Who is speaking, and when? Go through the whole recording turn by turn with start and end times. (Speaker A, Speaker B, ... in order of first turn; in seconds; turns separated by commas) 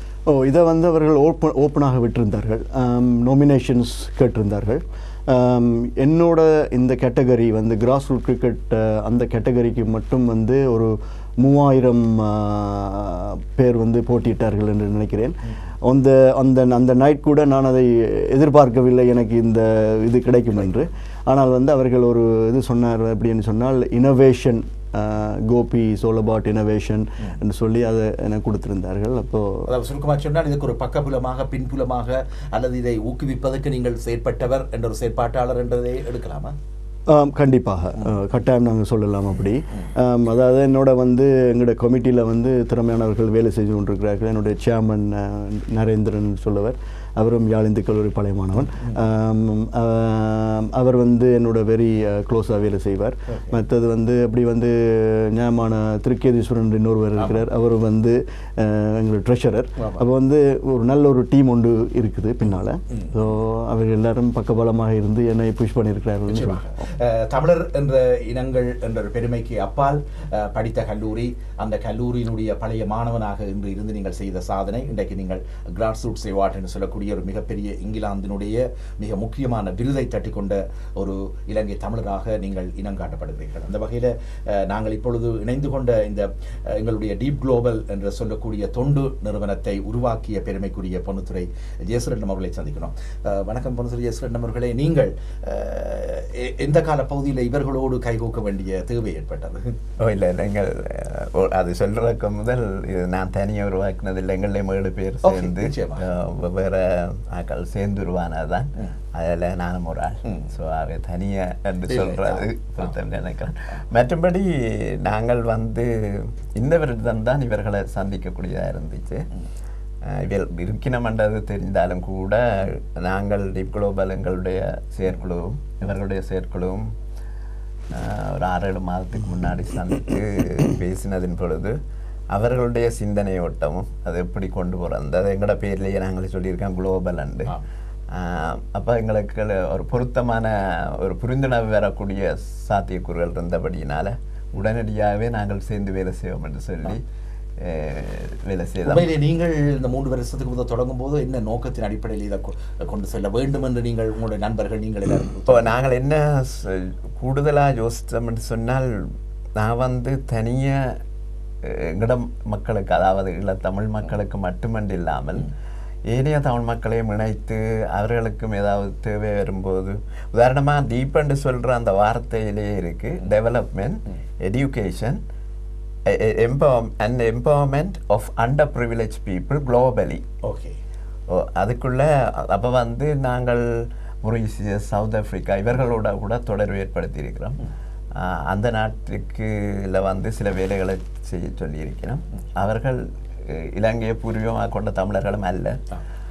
Speaker A: 0.3-29.7, Speaker B: 29.6-36.5, Speaker A: 37.1-66.8, Speaker B: 53.3-53.6, Speaker B: 57.2-57.4, Speaker B: 66.3-99.8, Speaker C: 100.0-119.3, Speaker B: 105.2-106.1, Speaker B: 111.9-112.9, Speaker C: 120.0-126.9, Speaker C: 127.9-131.8, Speaker C: 132.3-137.5, Speaker C: 138.1-147.0, Speaker C: 147.6-149.1, Speaker B: 148.8-155.7, Speaker C: 155.5-161.0, Speaker C: 161.6-165.5, Speaker C: 166.1-175.2, Speaker C: 176.1-180.2, Speaker B: 180.4-180.8, Speaker C: 181.3-187.6, Speaker C: 188.1-195.8